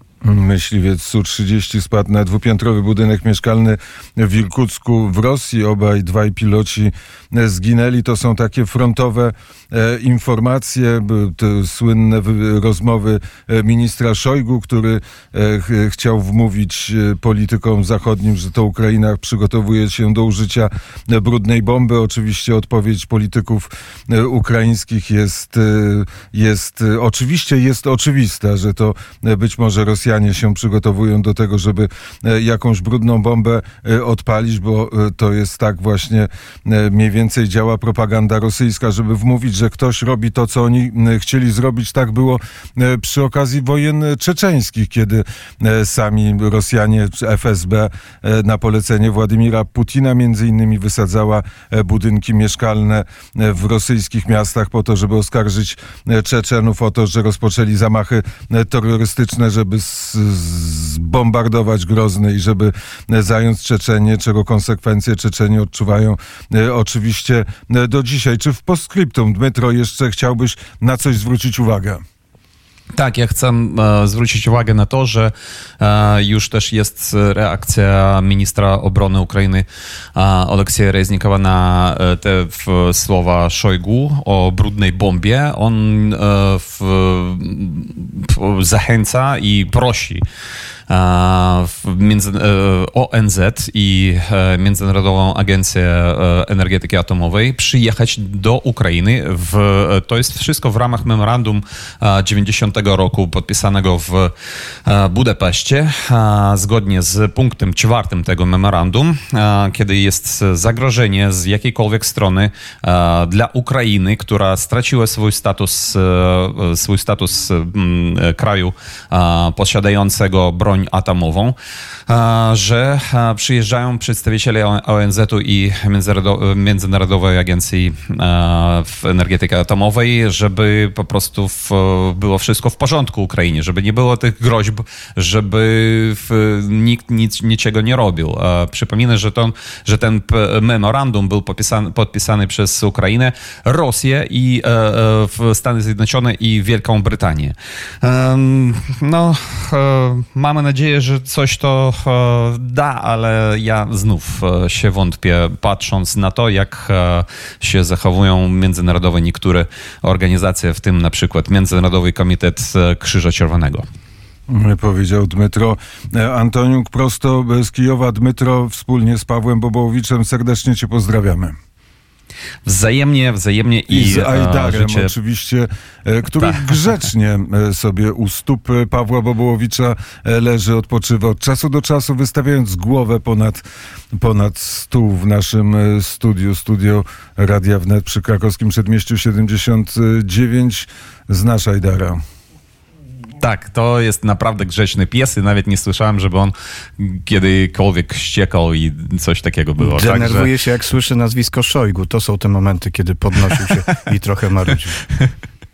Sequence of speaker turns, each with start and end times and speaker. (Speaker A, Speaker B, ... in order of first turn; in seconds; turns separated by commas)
Speaker A: 0.2-72.0, Speaker B: 72.9-79.7, Speaker B: 80.2-90.2, Speaker B: 90.9-104.3, Speaker B: 104.9-121.5, Speaker B: 122.1-163.8, Speaker A: 164.5-171.6, Speaker B: 172.7-175.1, Speaker A: 173.9-183.6, Speaker B: 176.4-177.0, Speaker A: 184.1-192.2, Speaker B: 193.4-200.5, Speaker C: 199.8-205.0